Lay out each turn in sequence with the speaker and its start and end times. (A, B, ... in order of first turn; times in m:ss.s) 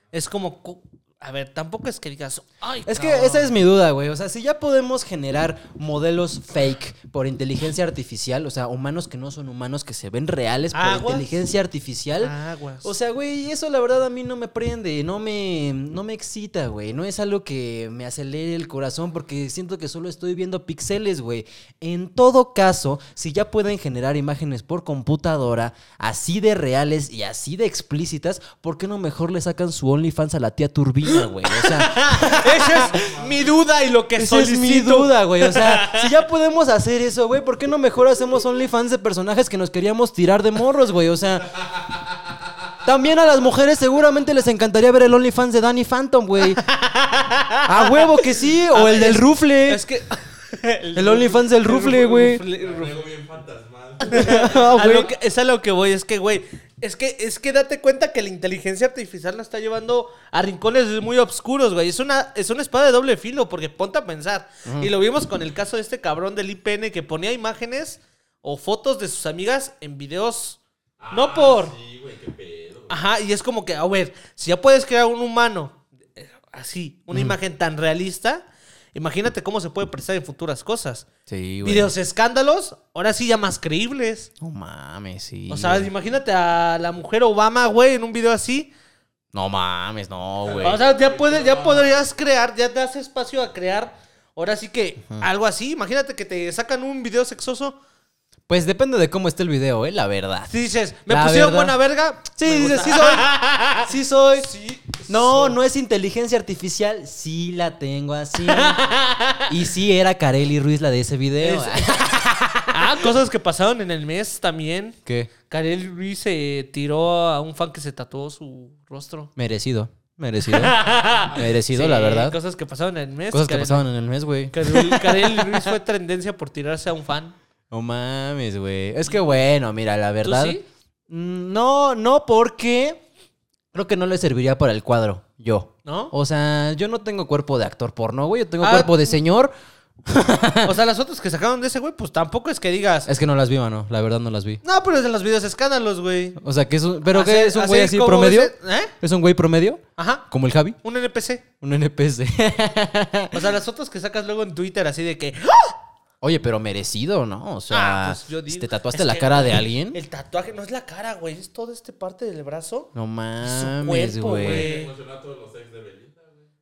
0:00.1-0:03.6 A
0:02.9-0:33.0 B
0:10.7-0:11.3 A
0:12.2-0:12.9 A
0:31.0-0:36.1 A
0:32.7-0:33.5 C
0:34.2-0:41.6 B
0:42.8-0:46.6 B
0:46.4-0:52.9 A
0:47.6-0:49.8 B
0:51.0-0:52.4 B
0:52.5-0:54.5 C
0:54.0-1:10.6 A
0:54.1-0:55.1 B
1:11.0-1:13.0 C
1:11.1-1:11.7 A
1:12.9-1:21.0 A
1:21.3-1:21.9 B
1:21.6-1:24.3 A
1:24.4-1:25.9 B
1:25.5-1:28.7 A
1:29.3-1:30.8 B
1:30.4-1:32.0 C
1:30.6-1:37.8 A
1:38.5-1:40.5 B
1:40.5-1:45.6 A
1:41.1-1:41.8 B
1:42.3-1:44.5 B
1:45.0-1:48.8 B
1:48.4-1:49.5 A
1:49.4-1:52.7 B
1:51.4-1:55.0 A
1:55.0-1:55.3 B
1:55.5-1:59.3 A
1:59.4-2:02.4 B
2:00.4-2:03.8 A
2:03.3-2:05.7 B
2:04.5-2:07.4 A
2:07.7-2:10.6 B
2:10.2-2:10.6 A
2:11.1-2:13.0 B
2:13.7-2:19.5 B
2:15.8-2:16.1 A
2:18.6-2:19.1 A
2:20.0-2:20.7 B
2:20.6-2:23.1 A
2:23.0-2:24.6 B
2:24.6-2:26.4 A
2:26.4-2:30.8 B
2:27.1-2:28.9 A
2:30.0-2:30.3 A
2:30.8-2:31.4 A
2:31.6-2:33.4 B
2:33.3-2:35.8 A
2:36.2-2:40.0 B
2:37.7-2:42.9 A
2:42.9-2:44.7 B
2:43.4-2:44.9 A
2:44.4-2:46.4 C